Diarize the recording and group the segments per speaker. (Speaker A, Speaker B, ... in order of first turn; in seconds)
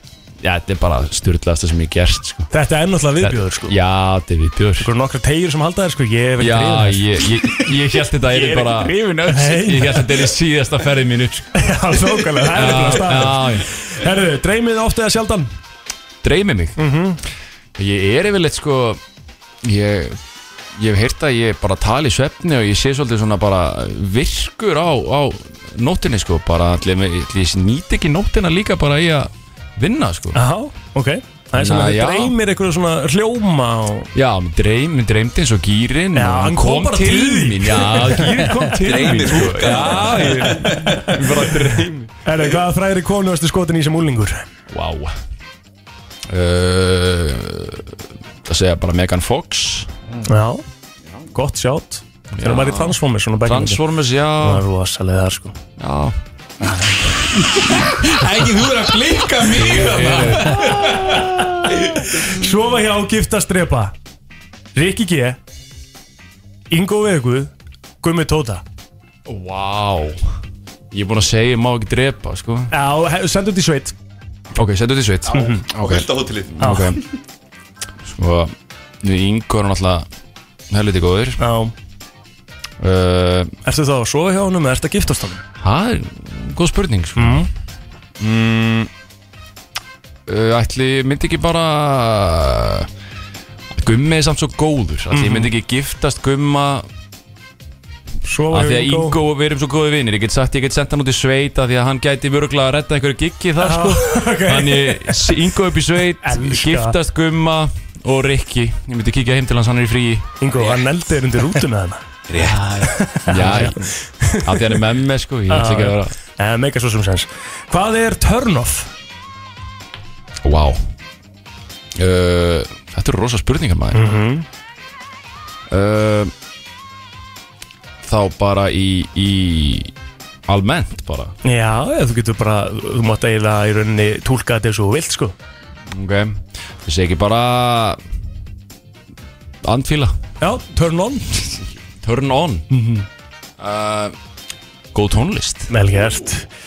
Speaker A: 0.4-2.5, 3.2-4.9, 6.4-11.6, 12.5-13.7, 16.2-16.8, 17.8-19.0, 19.6-20.2, 20.8-30.4, 31.6-32.3, 34.1-42.1, 44.7-45.1, 46.3-49.9, 52.4-54.6, 55.8-56.1, 59.5-60.6, 69.3-70.2, 70.9-72.7, 74.5-77.0, 78.0-80.0, 80.7-81.4, 82.8-83.5, 85.6-87.5, 88.2-88.9, 90.3-92.9, 93.7-96.9, 98.5-110.3, 112.4-113.9, 114.4-116.1, 120.4-120.8, 122.0-124.1, 125.7-126.3, 128.0-129.9, 130.5-131.3, 135.9-138.0, 139.6-140.2, 142.0-142.7, 143.6-144.1, 144.9-145.7
Speaker B: 2.5-3.7, 4.8-7.7, 8.3-10.1, 11.6-15.5, 16.8-17.2, 30.3-34.1, 36.1-38.7, 39.7-40.5, 42.2-44.4, 50.2-50.6, 51.3-53.8, 54.4-55.6, 60.0-63.9, 64.7-65.4, 66.7-67.5, 68.0-68.6, 72.7-73.9, 75.3-75.6, 76.6-76.9, 81.4-81.7, 83.6-85.4, 87.2-87.5, 95.1-95.5, 98.2-99.2, 103.6-105.3, 106.2-106.9, 110.4-112.0, 112.9-114.5, 115.5-118.9, 123.9-124.4, 131.4-135.3, 140.4-141.4, 142.7-143.1, 145.7-146.5
Speaker C: 38.8-41.5, 57.3-62.2, 75.3-76.8, 112.3-112.9